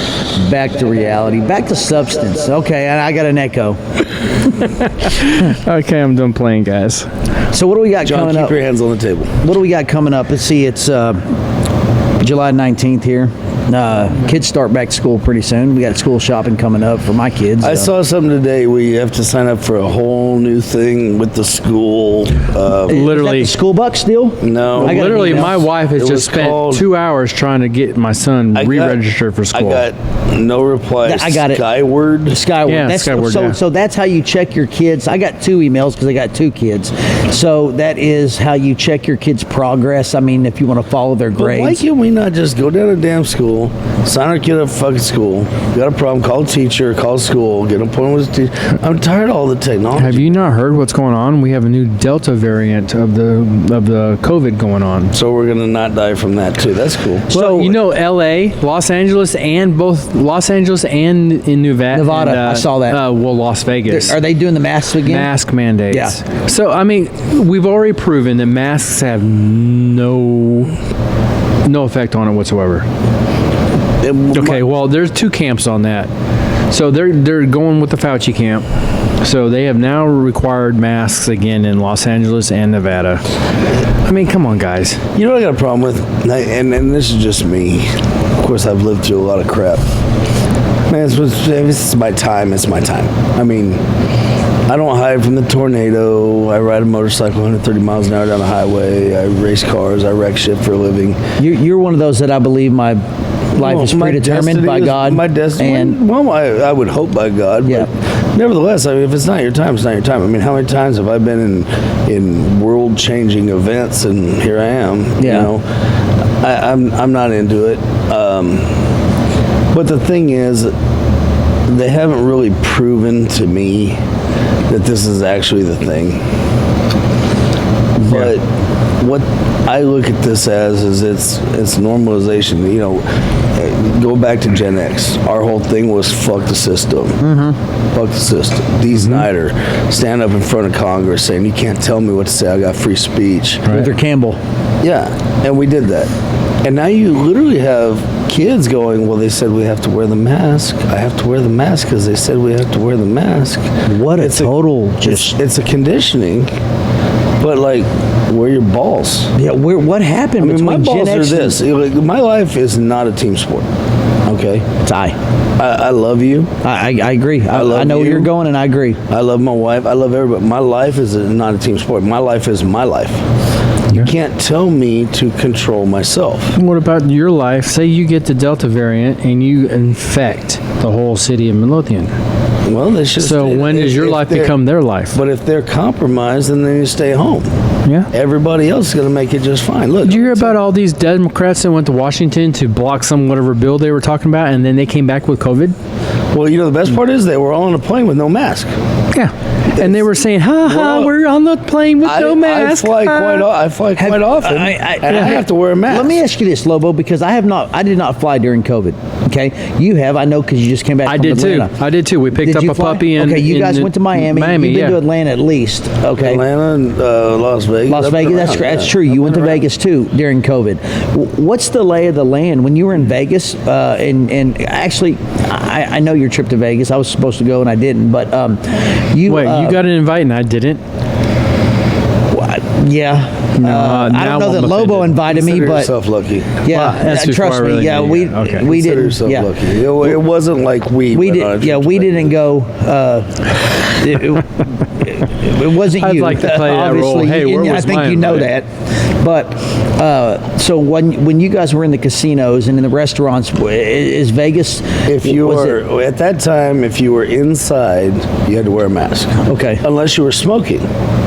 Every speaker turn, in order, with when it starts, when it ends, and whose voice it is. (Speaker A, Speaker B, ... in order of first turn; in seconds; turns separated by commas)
Speaker A: 0.2-3.8, Speaker B: 4.8-7.1, Speaker A: 7.5-8.6, Speaker C: 8.0-9.4, Speaker A: 9.4-11.2, Speaker A: 12.2-17.9, Speaker C: 17.6-23.0, Speaker B: 22.9-23.5, Speaker A: 22.9-25.6, Speaker C: 24.4-26.8, Speaker B: 24.8-29.9, Speaker C: 28.5-29.0, Speaker C: 29.5-32.4, Speaker A: 31.0-31.6, Speaker A: 32.3-41.8, Speaker B: 32.7-33.6, Speaker C: 41.3-50.5, Speaker B: 50.0-55.1, Speaker C: 55.1-57.3, Speaker B: 57.3-64.2, Speaker A: 57.3-57.8, Speaker A: 61.9-63.0, Speaker A: 63.9-65.3, Speaker B: 65.0-70.7, Speaker A: 65.9-66.2, Speaker B: 71.6-72.8, Speaker C: 74.0-74.6, Speaker B: 74.3-76.1, Speaker B: 76.7-78.7, Speaker B: 79.2-83.2, Speaker B: 84.0-85.0, Speaker C: 85.1-89.8, Speaker C: 90.9-93.8, Speaker C: 94.7-101.2, Speaker A: 101.4-103.0, Speaker A: 103.5-106.0, Speaker C: 103.5-115.7, Speaker A: 115.2-115.5, Speaker C: 116.4-118.8, Speaker C: 119.7-120.7, Speaker C: 121.7-124.0, Speaker C: 124.7-126.2, Speaker C: 128.0-128.5, Speaker C: 129.0-137.2, Speaker A: 137.2-137.6, Speaker C: 137.9-143.7, Speaker B: 138.9-139.2, Speaker B: 143.7-143.9, Speaker A: 143.7-144.4, Speaker C: 144.8-146.1, Speaker C: 146.6-156.5, Speaker A: 153.8-155.4, Speaker C: 157.4-159.3, Speaker A: 159.3-161.6, Speaker C: 160.4-163.7, Speaker C: 164.2-164.7, Speaker A: 164.8-165.2, Speaker C: 165.6-166.5, Speaker A: 166.6-169.0, Speaker C: 167.5-168.3, Speaker C: 169.1-173.2, Speaker C: 173.9-176.6, Speaker B: 176.5-182.1, Speaker C: 182.6-184.5, Speaker B: 183.2-185.2, Speaker C: 185.1-187.5, Speaker C: 188.1-190.6, Speaker B: 190.0-195.7, Speaker C: 196.3-198.7, Speaker B: 199.1-203.5, Speaker C: 199.7-200.1, Speaker C: 200.6-201.1, Speaker C: 202.0-206.2, Speaker A: 204.0-211.7, Speaker B: 205.1-205.4, Speaker B: 211.0-215.0, Speaker A: 212.3-216.4, Speaker C: 216.1-219.6, Speaker A: 217.9-229.8, Speaker B: 229.2-230.8, Speaker A: 232.3-235.9, Speaker B: 233.6-235.3, Speaker C: 235.3-236.6, Speaker A: 236.6-239.5, Speaker B: 236.7-238.7, Speaker C: 238.5-242.4, Speaker A: 241.1-255.8, Speaker B: 246.0-248.5, Speaker C: 255.0-260.9, Speaker A: 259.4-259.8